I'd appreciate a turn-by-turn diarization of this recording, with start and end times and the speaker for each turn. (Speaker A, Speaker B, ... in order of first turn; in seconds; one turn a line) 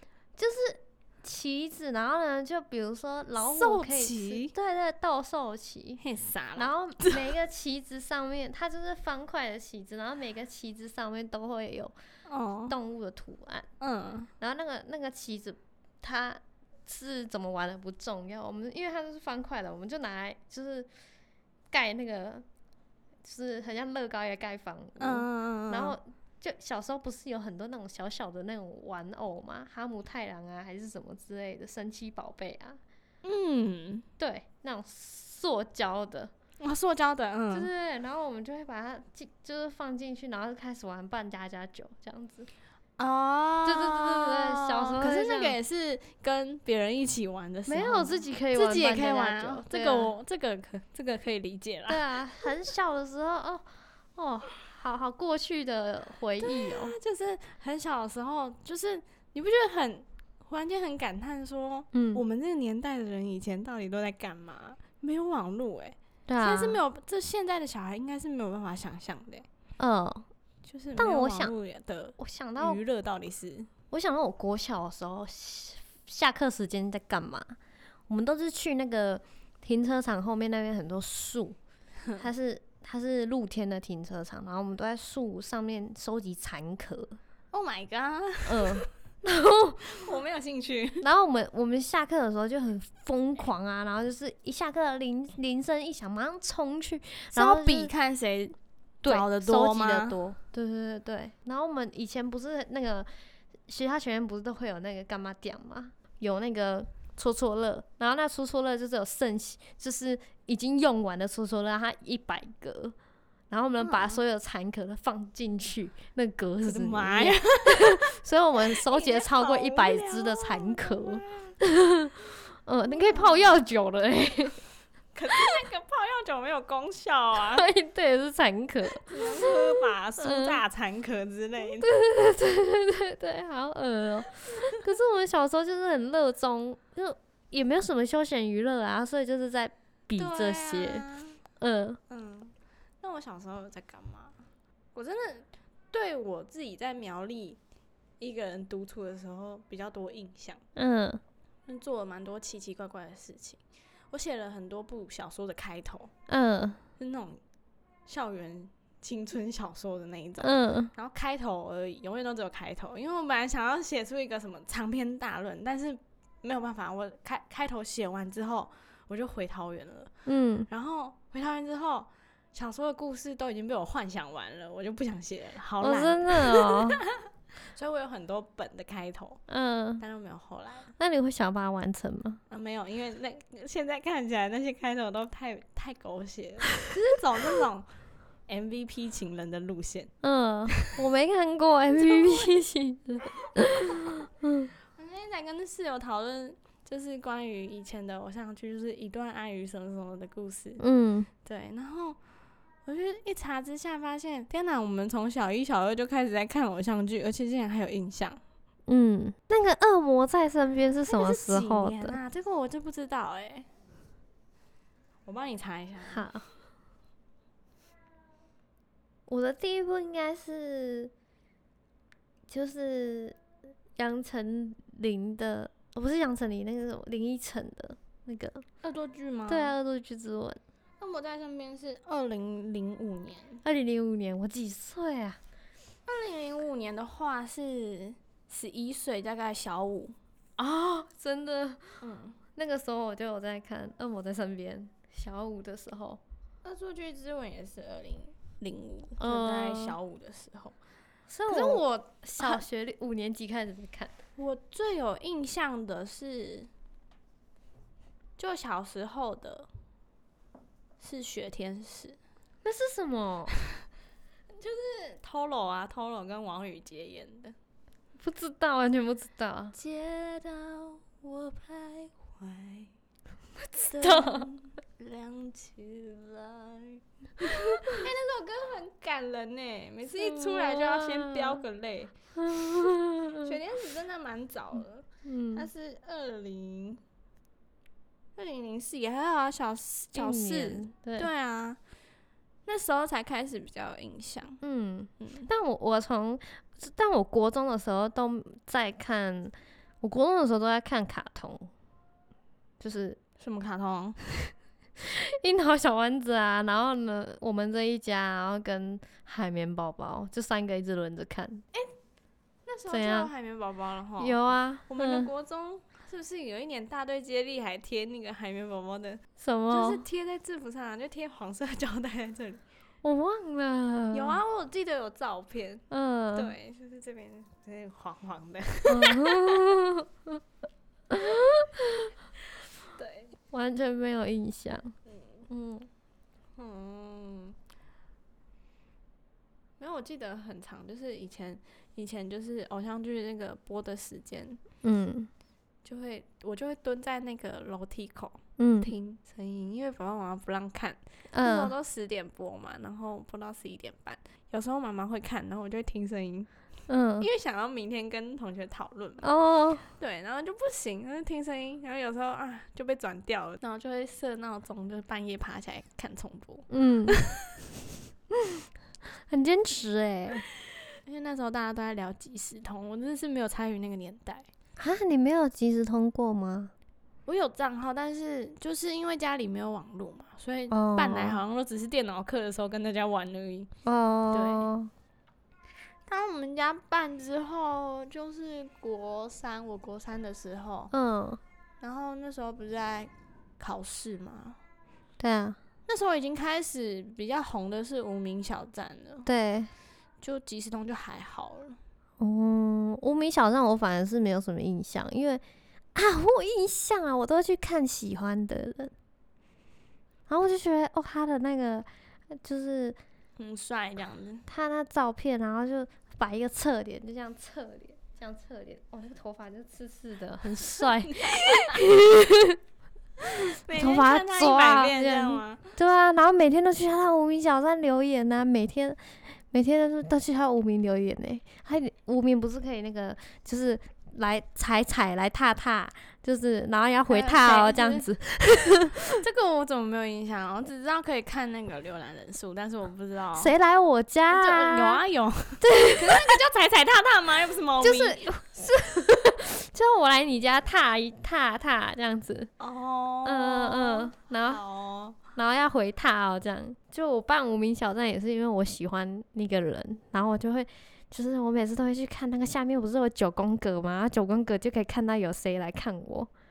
Speaker A: 0.4-6.0
Speaker B: 3.4-4.5
Speaker B: 6.0-7.3
Speaker A: 6.6-11.9
Speaker B: 12.3-12.8
Speaker A: 12.7-13.7
Speaker B: 13.8-14.3
Speaker A: 14.4-20.9
Speaker A: 21.7-22.4
Speaker A: 23.2-32.8
Speaker B: 25.0-26.0
Speaker B: 33.2-34.1
Speaker A: 34.2-36.3
Speaker B: 36.6-37.7
Speaker A: 37.5-42.5
Speaker B: 43.0-52.1
Speaker A: 43.6-45.6
Speaker A: 47.7-50.1
Speaker A: 51.9-57.0
Speaker B: 56.4-69.5
Speaker A: 61.9-62.2
Speaker A: 66.3-66.8
Speaker A: 69.8-70.3
Speaker B: 70.7-73.7
Speaker A: 71.0-71.5
Speaker A: 72.2-72.8
Speaker A: 73.9-77.6
Speaker A: 78.1-81.6
Speaker A: 82.2-87.2
Speaker B: 87.5-88.9
Speaker A: 88.5-89.9
Speaker B: 89.8-91.1
Speaker A: 91.0-97.9
Speaker B: 97.3-100.4
Speaker A: 99.0-103.1
Speaker A: 103.7-113.0
Speaker A: 113.5-124.6
Speaker B: 113.8-114.2
Speaker B: 116.6-118.2
Speaker B: 118.7-121.6
Speaker B: 122.9-123.5
Speaker B: 125.1-127.7
Speaker A: 127.5-130.6
Speaker B: 128.9-131.9
Speaker A: 131.8-141.1
Speaker B: 140.2-141.4
Speaker A: 141.6-142.0
Speaker B: 142.1-144.4
Speaker B: 144.9-147.6
Speaker B: 148.2-150.6
Speaker A: 150.8-151.2
Speaker B: 151.7-153.6
Speaker B: 154.1-156.1
Speaker A: 156.3-156.8
Speaker B: 157.0-157.4
Speaker B: 158.1-170.1
Speaker A: 160.4-160.9
Speaker A: 170.3-170.7
Speaker B: 170.7-179.4
Speaker A: 175.8-177.0
Speaker A: 179.5-180.0
Speaker B: 180.0-180.9
Speaker A: 181.0-182.4
Speaker B: 182.5-187.9
Speaker B: 188.5-190.1
Speaker A: 190.2-194.7
Speaker B: 192.0-192.5
Speaker B: 194.9-200.8
Speaker A: 200.8-201.3
Speaker B: 201.4-202.2
Speaker B: 202.9-208.4
Speaker A: 208.9-212.2
Speaker B: 211.1-213.7
Speaker B: 215.3-216.3
Speaker A: 216.1-216.4
Speaker A: 219.3-221.1
Speaker A: 222.5-223.4
Speaker A: 224.0-228.7
Speaker B: 228.8-229.7
Speaker A: 229.5-230.6
Speaker B: 231.0-233.6
Speaker A: 233.6-235.4
Speaker B: 236.1-240.2
Speaker A: 240.6-242.0
Speaker B: 242.0-242.4
Speaker A: 242.6-246.2
Speaker B: 246.6-250.8
Speaker A: 249.2-250.0
Speaker A: 251.3-254.2
Speaker B: 251.5-251.8
Speaker B: 252.4-252.6
Speaker B: 254.4-256.7
Speaker B: 258.4-259.7
Speaker B: 261.0-262.2
Speaker A: 262.6-263.5
Speaker B: 264.5-267.6
Speaker A: 268.2-269.8
Speaker B: 269.7-272.9
Speaker B: 273.8-287.0
Speaker A: 273.8-274.5
Speaker A: 280.2-281.6
Speaker A: 282.4-283.5
Speaker A: 285.2-285.7
Speaker B: 288.4-291.8
Speaker A: 290.1-291.3
Speaker B: 292.7-294.6
Speaker A: 294.6-301.7
Speaker B: 295.2-295.5
Speaker A: 302.8-303.2
Speaker B: 303.4-304.5
Speaker A: 305.0-311.6
Speaker B: 312.7-322.6
Speaker A: 312.9-313.3
Speaker A: 314.2-315.3
Speaker A: 319.4-320.1
Speaker A: 323.0-324.4
Speaker B: 324.1-329.6
Speaker A: 325.9-326.6
Speaker A: 328.9-330.4
Speaker A: 331.1-332.1
Speaker B: 332.9-333.3
Speaker A: 333.5-334.9
Speaker B: 335.1-335.5
Speaker A: 335.5-335.9
Speaker B: 336.6-337.6
Speaker B: 339.8-344.6
Speaker A: 344.8-345.3
Speaker B: 345.9-356.5
Speaker A: 348.6-348.9
Speaker A: 351.3-351.7
Speaker A: 356.9-357.3
Speaker B: 357.2-359.3
Speaker A: 359.2-359.9
Speaker B: 360.0-367.4
Speaker A: 366.7-367.2
Speaker A: 368.3-368.7
Speaker A: 369.3-370.4
Speaker B: 371.0-374.5
Speaker A: 374.8-376.7
Speaker B: 377.3-383.7
Speaker A: 380.7-381.4
Speaker A: 383.9-384.9
Speaker B: 384.3-384.7
Speaker B: 386.1-390.9
Speaker A: 390.9-391.4
Speaker B: 391.8-394.6
Speaker A: 395.2-395.6
Speaker B: 395.9-399.3
Speaker A: 399.3-399.7
Speaker B: 400.2-401.8
Speaker A: 402.2-405.4
Speaker A: 405.9-408.9
Speaker A: 410.3-413.0
Speaker B: 413.4-414.5
Speaker A: 414.5-422.6
Speaker B: 420.8-421.8
Speaker B: 423.2-425.8
Speaker A: 423.6-439.0
Speaker B: 437.1-438.1
Speaker B: 439.1-443.5
Speaker A: 443.4-445.0
Speaker B: 444.3-448.2
Speaker A: 445.6-446.4
Speaker A: 447.8-452.5
Speaker B: 452.6-455.2
Speaker A: 453.2-454.6
Speaker A: 455.4-466.3